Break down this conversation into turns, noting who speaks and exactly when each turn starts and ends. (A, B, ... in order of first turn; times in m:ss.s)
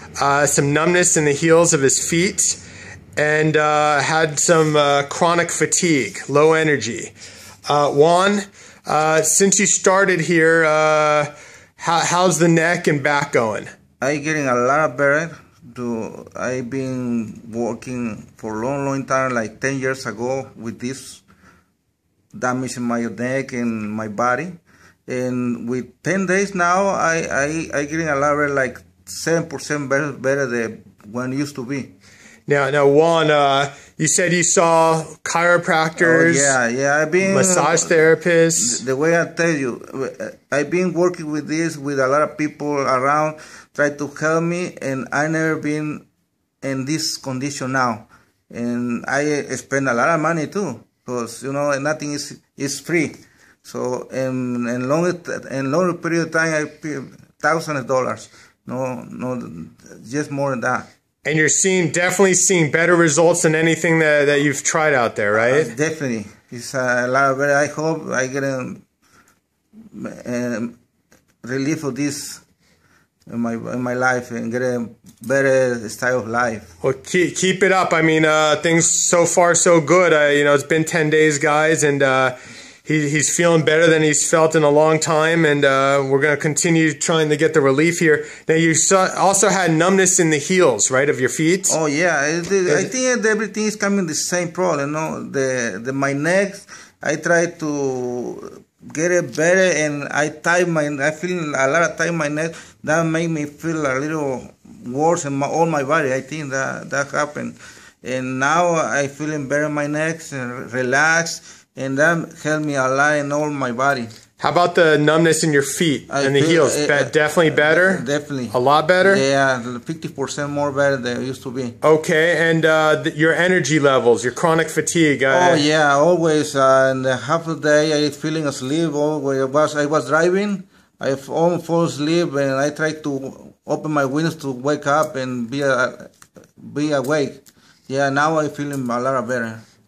0:00.2-0:02.6 A
0:03.2-0:07.1 A
0:07.7-0:13.7 A
0:14.0-0:21.2 B
0:22.3-0:24.6 B
0:25.1-0:31.9 B
0:32.5-0:36.6 A
0:36.0-0:46.0 B
0:37.2-0:38.8 A
0:46.6-1:00.9 B
1:01.2-1:05.7 A
1:05.3-1:08.8 B
1:09.9-1:10.8 B
1:11.4-1:12.4 B
1:13.3-1:16.7 B
1:16.8-1:31.8 A
1:31.7-1:54.1 B
1:54.4-1:59.2 A
1:56.1-2:01.8 B
2:01.8-2:05.6 A
2:05.3-2:19.6 B